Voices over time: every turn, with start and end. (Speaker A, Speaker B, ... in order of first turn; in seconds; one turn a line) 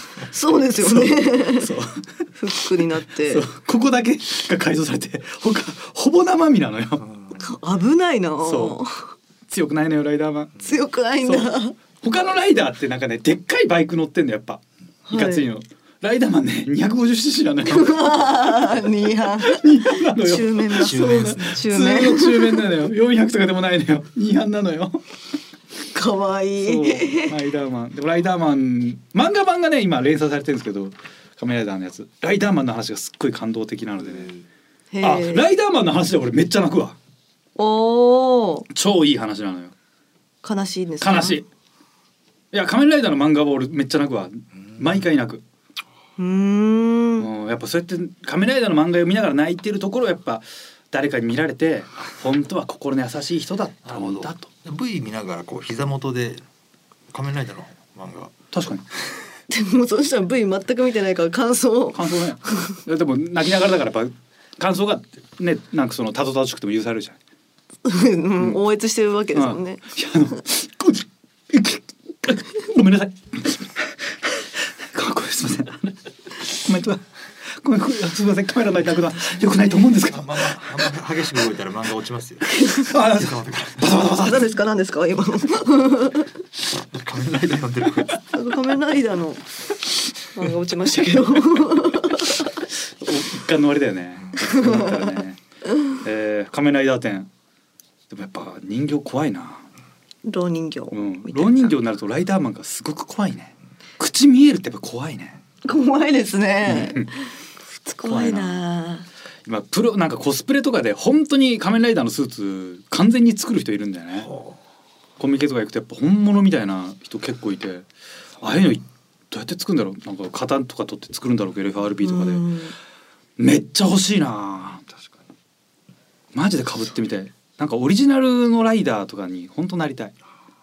Speaker A: 0.3-1.7
Speaker B: 0.5-2.0
Speaker A: 2.4-3.5
Speaker B: 3.2-7.0
Speaker C: 7.1-7.4
Speaker A: 7.4-9.1
Speaker B: 8.4-8.8
Speaker B: 9.5-10.6
Speaker A: 10.6-11.8
Speaker B: 11.2-25.0
Speaker A: 15.1-15.4
Speaker A: 17.7-22.7
Speaker C: 20.8-21.4
Speaker A: 25.9-27.4
Speaker B: 26.6-34.3
Speaker A: 34.9-35.5
Speaker B: 35.0-37.0
Speaker A: 37.5-38.7
Speaker B: 38.7-39.7
Speaker A: 40.4-41.4
Speaker B: 41.0-41.5
Speaker B: 42.5-45.4
Speaker A: 46.2-47.3
Speaker B: 47.2-54.5
Speaker C: 53.8-56.4
Speaker C: 57.1-58.3
Speaker B: 58.5-58.9
Speaker A: 59.5-62.8
Speaker B: 61.9-67.2
Speaker A: 67.8-69.8
Speaker B: 69.3-80.9
Speaker C: 80.1-83.9
Speaker A: 82.5-82.9
Speaker B: 82.6-84.5
Speaker A: 84.1-86.3
Speaker C: 86.8-88.2
Speaker A: 88.3-89.5
Speaker A: 90.2-92.5
Speaker B: 90.9-91.8
Speaker B: 93.0-95.4
Speaker A: 94.5-94.8
Speaker B: 95.9-97.3
Speaker B: 98.1-99.7
Speaker A: 100.2-101.7
Speaker B: 100.9-105.4
Speaker A: 105.6-109.1
Speaker B: 106.7-107.1
Speaker B: 108.0-108.6
Speaker B: 109.4-114.3
Speaker B: 115.2-117.9
Speaker B: 118.4-122.5
Speaker A: 122.0-122.7
Speaker B: 123.4-124.8
Speaker C: 124.9-125.2
Speaker B: 126.3-130.1